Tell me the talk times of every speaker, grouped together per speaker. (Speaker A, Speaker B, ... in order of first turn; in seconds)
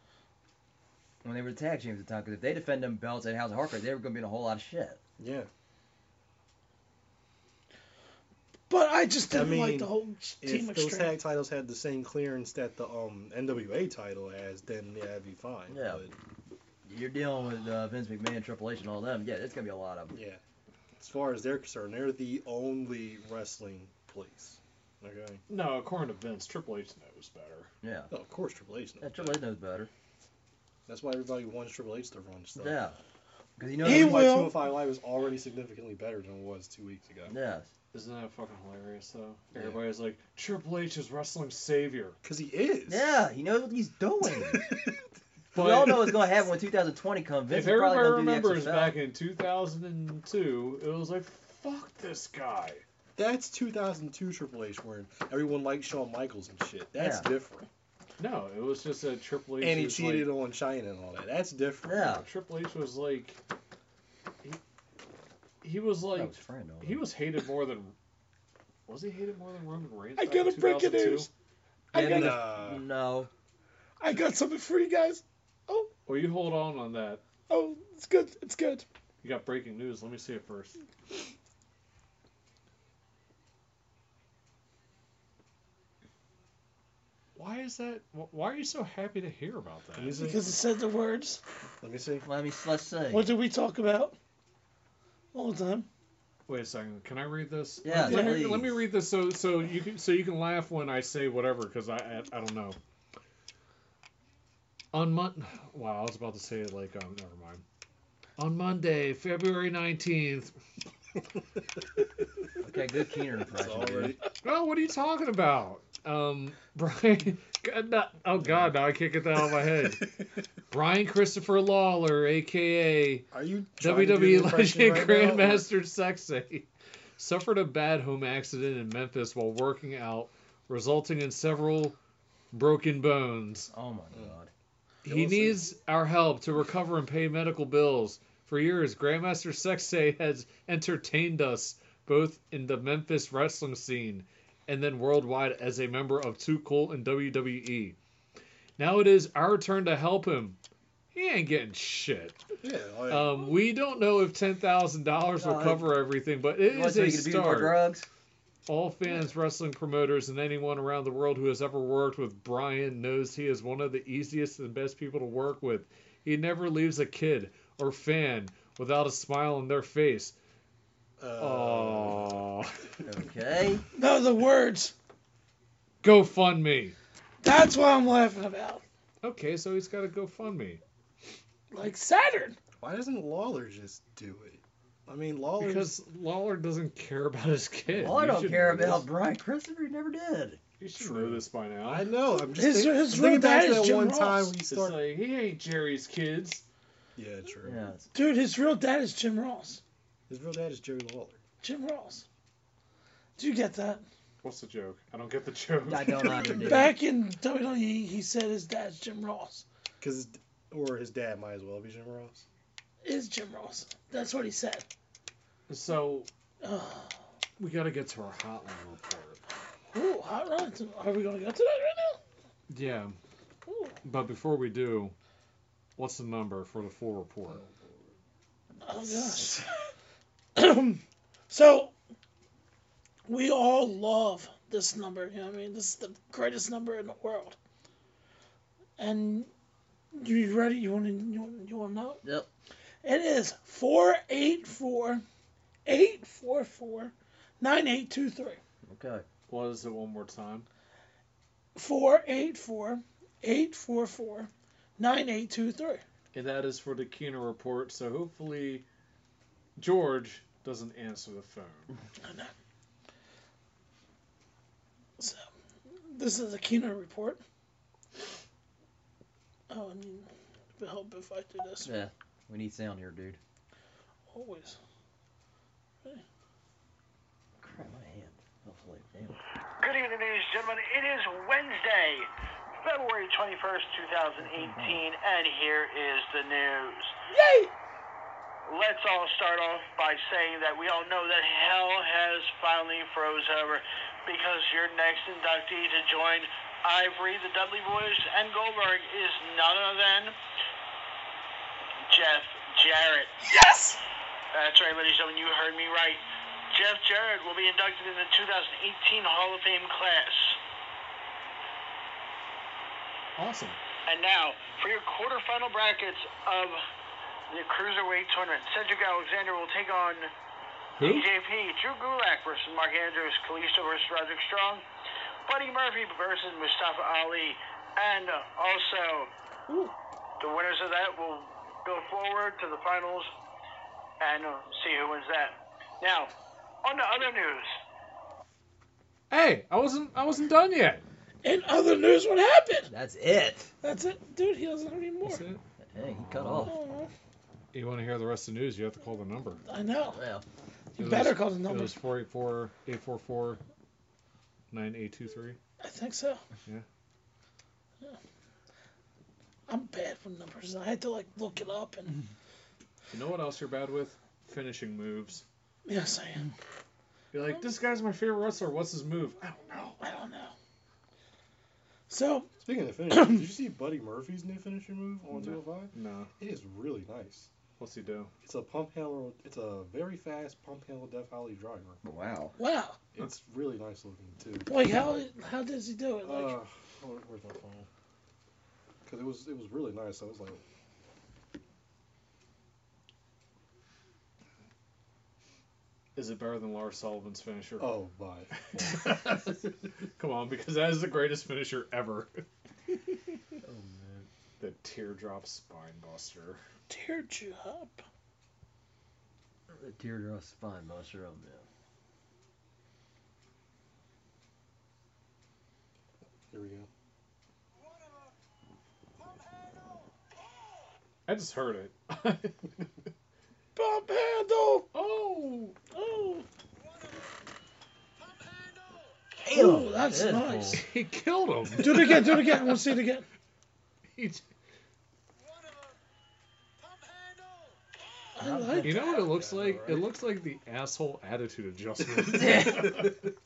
Speaker A: 1.2-5.0, 15.7-16.0, 16.9-20.1, 27.8-28.1, 29.0-29.9, 32.6-33.0, 33.6-34.3, 37.3-37.7, 42.9-44.6, 45.5-49.0, 57.0-57.3, 61.9-62.2, 66.1-67.0, 71.9-73.3, 92.2-93.3, 97.8-98.8, 112.6-114.2, 133.7-134.5, 155.4-155.9, 156.7-158.1, 173.0-173.8, 187.9-190.6, 197.6-198.1, 205.9-206.9, 229.0-229.7, 242.2-242.5, 248.9-249.3, 271.8-273.4, 277.6-279.4, 284.5-285.0, 342.9-343.7, 345.8-346.7, 350.1-350.4, 382.0-382.6, 403.7-404.2, 409.7-411.7, 429.4-430.8, 438.4-439.1, 442.3-443.1
Speaker B: 5.2-5.5, 9.3-16.1, 20.1-20.4, 21.0-25.4, 28.1-29.4, 30.9-32.8, 33.8-37.3, 42.2-43.1, 44.5-45.0, 53.2-57.7, 59.6-62.1, 72.0-72.8, 90.0-90.6, 91.8-92.3, 113.5-114.3, 123.3-125.7, 135.1-135.6, 152.6-153.5, 171.2-172.5, 182.8-185.9, 191.0-195.0, 197.2-197.8, 200.3-201.4, 210.0-212.4, 372.6-377.5, 378.4-382.0, 383.1-384.7, 386.2-387.9, 389.1-390.6, 397.8-399.5, 416.5-416.9, 438.9-440.1
Speaker C: 8.7-11.2, 33.8-34.6, 70.2-71.3, 71.9-72.4, 74.0-75.9, 77.5-78.8, 90.1-91.4, 93.1-94.2, 95.3-95.9, 98.0-98.5, 173.9-174.9, 177.4-178.8, 181.7-182.6, 192.6-194.6, 198.1-199.8, 201.6-202.2, 203.4-204.0, 206.3-209.7, 213.0-214.9, 216.6-217.2, 219.9-222.2, 223.7-224.0, 228.8-229.7, 230.6-231.9, 233.3-237.6, 239.0-239.5, 240.1-242.2, 243.0-245.2, 245.9-248.6, 251.8-256.0, 262.2-262.5, 265.2-265.5, 266.1-267.4, 269.7-271.9, 274.3-274.8, 287.3-287.7, 303.5-304.0, 341.4-342.9, 343.8-345.4, 346.6-347.1, 349.7-350.2, 351.0-352.0, 355.8-356.4, 359.7-362.2, 365.9-366.5, 370.0-370.6, 372.1-372.5, 373.1-373.4, 382.6-383.0, 384.7-386.6, 406.9-408.0, 423.8-424.9, 425.9-426.5, 429.5-430.8, 431.8-433.3, 438.4-439.1
Speaker D: 25.5-27.7, 37.9-42.2, 45.5-46.3, 47.5-52.8, 58.2-60.3, 62.1-63.4, 65.6-67.9, 68.9-71.3, 76.1-77.2, 79.2-80.8, 87.4-90.2, 96.5-102.8, 104.9-107.6, 108.4-110.5, 114.4-120.1, 120.7-123.3, 123.8-126.7, 127.2-132.0, 132.5-133.7, 135.1-148.0, 148.8-150.6, 151.1-152.4, 153.1-157.8, 158.7-170.3, 171.4-172.7, 176.0-177.0, 179.2-180.8, 185.6-189.1, 190.8-192.1, 194.7-196.7, 204.4-206.9, 215.7-216.3, 217.6-219.4, 222.7-223.2, 224.0-225.2, 226.0-227.7, 249.5-250.7, 256.3-258.9, 259.8-261.9, 313.4-313.8, 321.0-321.3, 339.3-341.0, 345.2-346.7, 347.7-349.6, 351.0-353.6, 354.7-355.6, 363.1-365.4, 367.3-370.0, 375.3-376.3, 377.8-378.3, 396.1-398.0, 398.8-402.4, 403.8-406.6, 421.3-423.1, 424.9-425.8, 430.7-432.8, 434.1-434.4, 438.8-443.2
Speaker E: 279.8-282.3, 282.8-287.1, 288.7-300.4, 302.1-303.3, 304.5-310.6, 314.1-316.8, 317.5-320.3, 321.0-324.8, 325.5-329.3, 330.4-333.3, 334.2-336.3, 336.8-337.7